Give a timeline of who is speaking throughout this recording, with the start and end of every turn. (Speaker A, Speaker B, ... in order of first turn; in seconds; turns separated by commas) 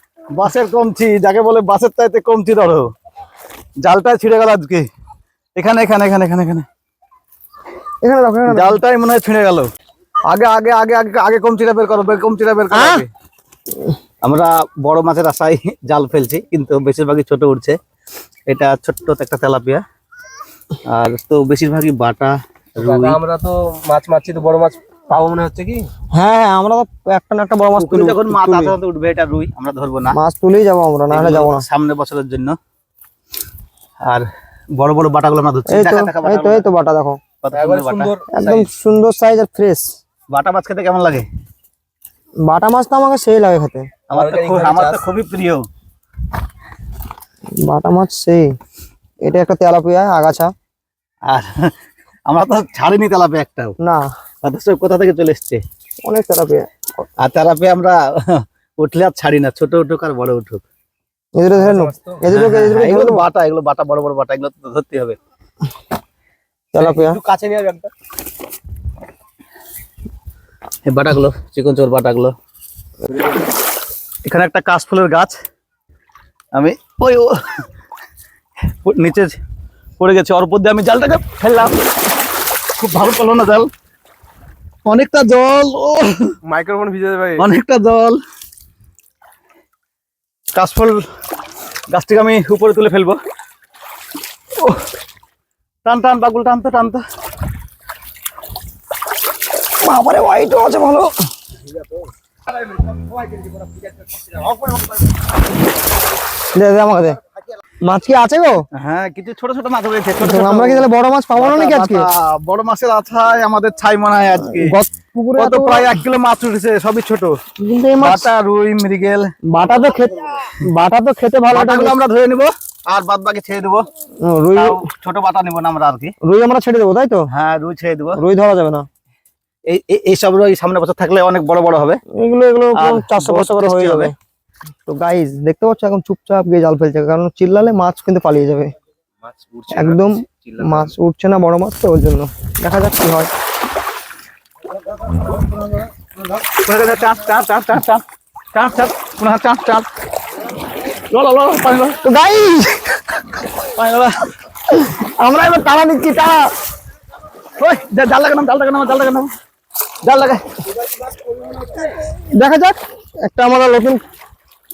Speaker A: 0.3-2.9, Speaker A: 3.8-4.8, Speaker A: 5.5-6.7, Speaker B: 8.0-8.8, Speaker A: 8.5-9.7, Speaker A: 10.3-13.1, Speaker A: 14.2-17.8, Speaker A: 18.5-19.8, Speaker A: 20.9-23.2, Speaker C: 22.8-25.9, Speaker B: 26.1-28.7, Speaker A: 27.8-30.2, Speaker B: 30.1-31.6, Speaker A: 31.1-32.6, Speaker A: 34.0-36.6, Speaker B: 35.7-37.2, Speaker A: 37.4-38.1, Speaker C: 37.5-38.7, Speaker B: 38.3-39.9, Speaker A: 40.3-41.2, Speaker B: 42.5-43.9, Speaker A: 44.1-45.6, Speaker C: 44.1-45.0, Speaker B: 47.6-48.5, Speaker B: 49.2-50.5, Speaker A: 51.3-51.7, Speaker A: 52.3-53.7, Speaker B: 53.8-54.1, Speaker A: 54.4-55.6, Speaker B: 56.0-56.7, Speaker A: 57.2-60.6, Speaker B: 61.4-63.2, Speaker C: 61.5-62.3, Speaker A: 62.3-65.2, Speaker B: 66.7-67.2, Speaker C: 66.8-67.9, Speaker A: 70.8-72.3, Speaker A: 74.2-75.3, Speaker A: 76.5-77.7, Speaker A: 78.6-79.3, Speaker A: 80.0-81.8, Speaker A: 82.8-83.7, Speaker A: 84.8-86.3, Speaker C: 86.4-87.5, Speaker A: 87.4-88.2, Speaker A: 90.5-91.0, Speaker A: 91.9-93.2, Speaker A: 94.6-94.8, Speaker A: 95.8-97.0, Speaker B: 99.8-101.1, Speaker C: 101.7-102.0, Speaker C: 102.7-105.0, Speaker B: 106.5-107.2, Speaker B: 107.8-108.7, Speaker A: 108.7-114.7, Speaker B: 110.2-112.1, Speaker B: 114.5-116.0, Speaker A: 115.4-117.3, Speaker B: 117.6-118.3, Speaker A: 118.0-119.3, Speaker B: 119.5-122.0, Speaker A: 121.5-123.9, Speaker B: 124.2-124.9, Speaker A: 124.5-126.1, Speaker B: 126.2-127.3, Speaker A: 127.3-128.2, Speaker B: 128.2-128.9, Speaker A: 129.7-132.0, Speaker B: 132.1-134.1, Speaker A: 132.7-134.1, Speaker B: 134.8-138.7, Speaker C: 139.2-140.9, Speaker B: 139.7-143.3, Speaker A: 146.6-148.0, Speaker A: 148.5-149.8, Speaker A: 151.0-152.0, Speaker B: 152.0-153.4, Speaker A: 153.7-154.3, Speaker B: 154.8-156.5, Speaker A: 157.6-159.3, Speaker A: 160.0-160.4, Speaker C: 160.8-161.9, Speaker B: 162.0-164.0